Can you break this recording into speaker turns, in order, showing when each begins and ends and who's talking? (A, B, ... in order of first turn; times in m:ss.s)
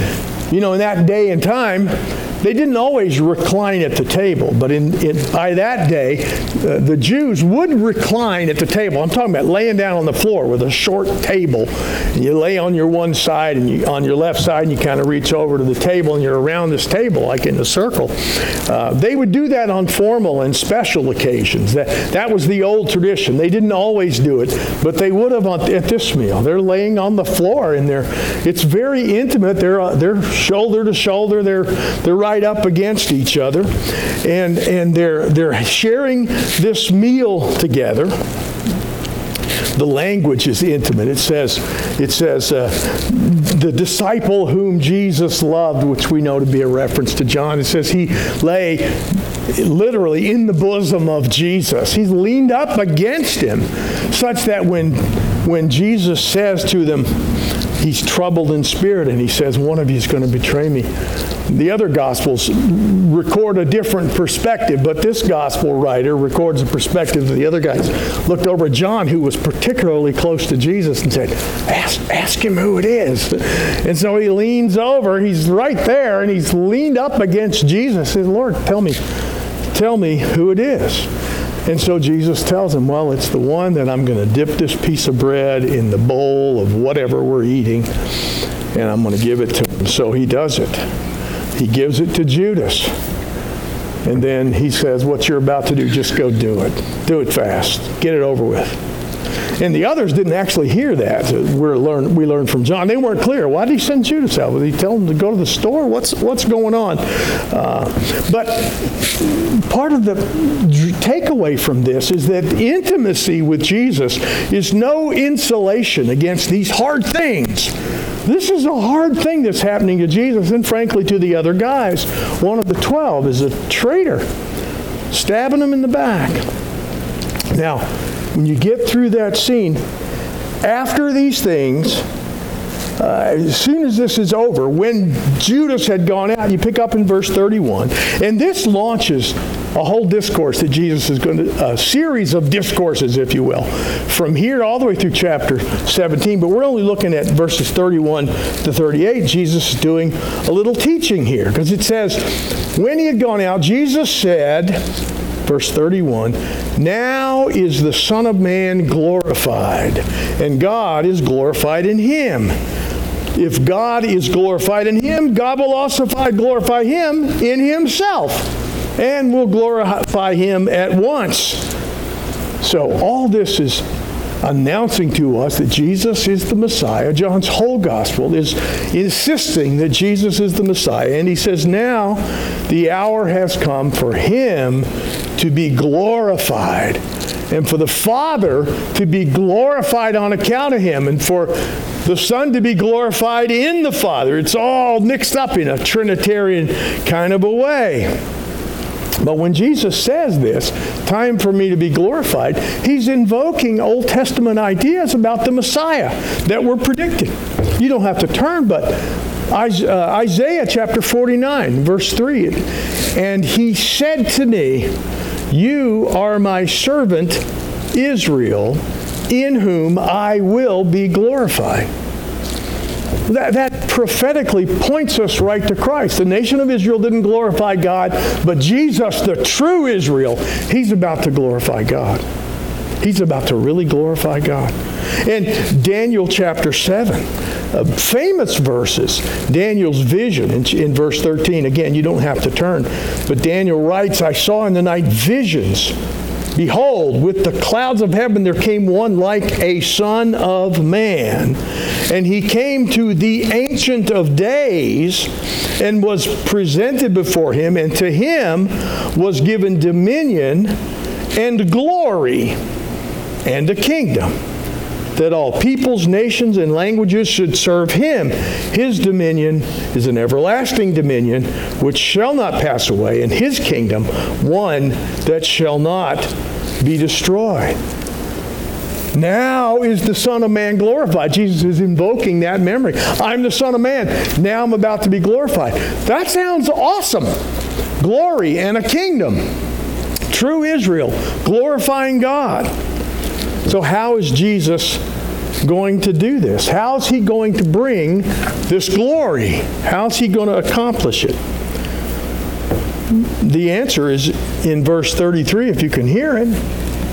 0:00.5-0:33.7 A
0:34.2-0:38.1 A
0:39.8-0:57.2 A
0:57.8-1:00.9 A
1:01.5-1:19.0 A
1:19.7-1:21.1 A
1:21.7-1:27.9 A
1:28.7-1:30.8 A
1:31.6-1:32.9 A
1:34.0-1:38.8 A
1:39.6-1:57.7 A
1:58.2-2:04.3 A
2:05.1-2:06.4 A
2:07.5-2:09.8 A
2:10.6-2:12.0 A
2:13.0-2:34.8 A
2:35.5-2:42.6 A
2:43.4-2:51.7 A
2:52.6-2:53.9 A
2:54.4-3:18.1 A
3:19.2-3:34.9 A
3:35.5-3:41.9 A
3:43.3-3:52.2 A
3:53.0-4:06.0 A
4:06.6-4:20.8 A
4:21.4-4:22.6 A
4:23.4-4:24.4 A
4:25.2-4:37.8 A
4:39.1-4:47.3 A
4:48.0-4:49.4 A
4:50.3-4:52.7 A
4:53.7-4:55.0 A
4:55.6-5:01.4 A
5:03.1-5:06.6 A